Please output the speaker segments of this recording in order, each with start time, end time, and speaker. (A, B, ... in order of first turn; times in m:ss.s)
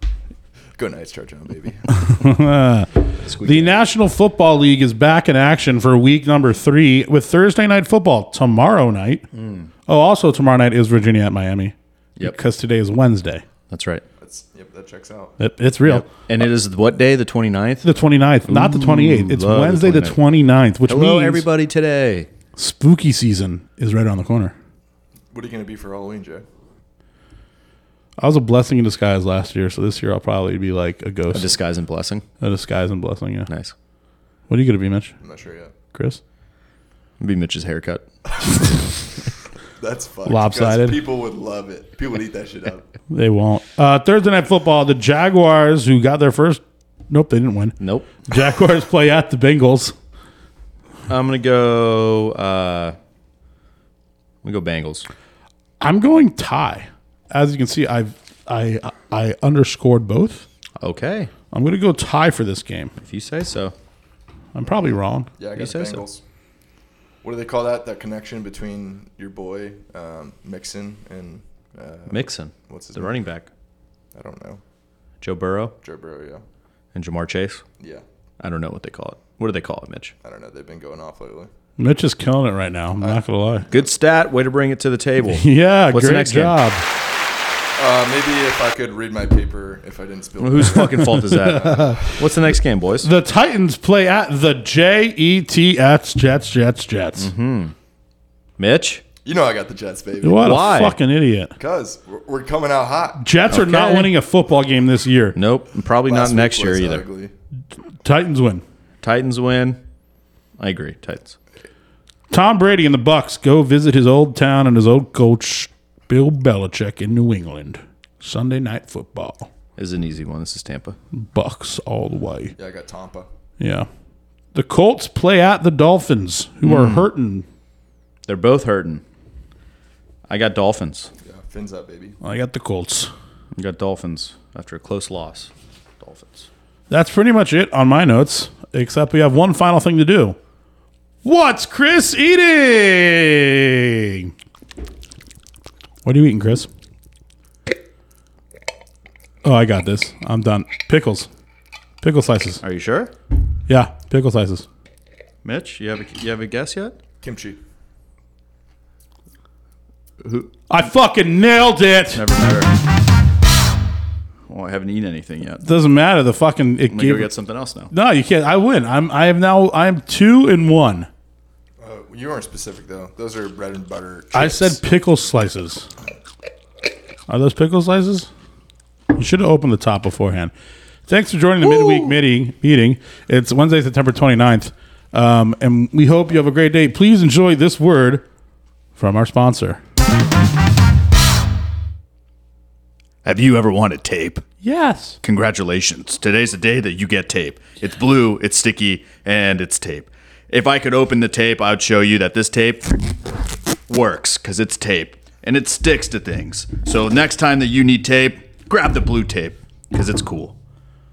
0:00.8-0:01.9 A
0:02.0-0:09.2 B
0:03.2-0:03.8 C
0:09.3-0:09.7 C
0:09.9-0:13.4 B
0:13.7-0:14.0 C
0:14.2-0:15.4 A
0:15.4-0:16.1 B
0:15.8-0:17.9 C
0:17.8-0:21.4 B
0:18.5-0:20.2 C
0:20.8-0:22.3 C
0:22.6-0:24.5 B
0:25.3-0:26.4 A
0:28.2-0:31.6 B
0:31.3-0:32.2 C
0:32.4-0:33.5 B
0:33.5-0:33.7 C
0:34.5-0:35.2 B
0:35.2-0:35.7 A
0:35.9-0:36.2 B
0:37.2-0:38.0 C
0:39.8-0:42.9 A
0:40.2-0:41.0 B
0:43.1-0:49.9 B
0:47.8-0:48.1 C
0:51.1-0:53.0 C
0:54.4-0:55.0 C
0:55.8-1:00.5 B
1:00.8-1:01.3 C
1:01.5-1:02.9 B
1:03.0-1:03.7 C
1:04.5-1:05.3 B
1:05.4-1:06.2 A
1:05.6-1:06.0 C
1:07.2-1:13.2 A
1:12.1-1:13.5 C
1:14.1-1:14.6 A
1:15.2-1:15.7 C
1:15.8-1:16.4 A
1:16.9-1:17.6 C
1:18.4-1:20.1 C
1:20.2-1:21.5 A
1:21.8-1:23.7 B
1:23.0-1:23.9 A
1:23.7-1:26.6 C
1:25.3-1:26.8 B
1:27.8-1:31.2 A
1:30.4-1:33.1 C
1:30.8-1:32.1 B
1:33.0-1:37.3 B
1:37.2-1:37.7 C
1:38.6-1:39.0 C
1:39.2-1:40.6 A
1:40.2-1:41.5 B
1:40.4-1:41.0 C
1:41.6-1:43.2 A
1:43.2-1:45.4 B
1:43.5-1:44.1 C
1:45.3-1:47.0 C
1:46.0-1:47.3 A
1:48.0-1:48.6 B
1:49.0-1:49.8 C
1:50.6-1:51.4 C
1:52.3-1:59.5 B
1:59.8-2:01.0 C
2:01.1-2:02.5 B
2:02.6-2:03.3 A
2:03.6-2:03.9 B
2:04.5-2:07.4 B
2:06.6-2:07.1 C
2:08.2-2:09.0 C
2:10.3-2:11.1 C
2:11.2-2:12.2 A
2:12.2-2:13.1 B
2:13.6-2:16.5 C
2:16.9-2:20.4 B
2:21.2-2:24.3 B
2:26.0-2:26.7 B
2:29.4-2:31.3 B
2:32.0-2:32.6 B
2:32.6-2:33.1 C
2:33.7-2:34.6 B
2:35.4-2:37.0 C
2:37.2-2:37.6 A
2:40.2-2:40.5 C
2:40.7-2:42.2 B
2:42.1-2:42.7 C
2:44.5-2:45.7 C
2:45.6-2:47.3 B
2:46.9-2:47.9 C
2:47.9-2:51.1 B
2:51.8-2:54.8 A
2:54.3-2:55.9 B
2:57.3-2:58.3 B
2:59.1-3:00.5 B
3:01.1-3:08.2 B
3:09.0-3:09.8 B
3:13.2-3:14.4 C
3:14.6-3:15.2 B
3:15.2-3:23.1 C
3:23.9-3:30.5 C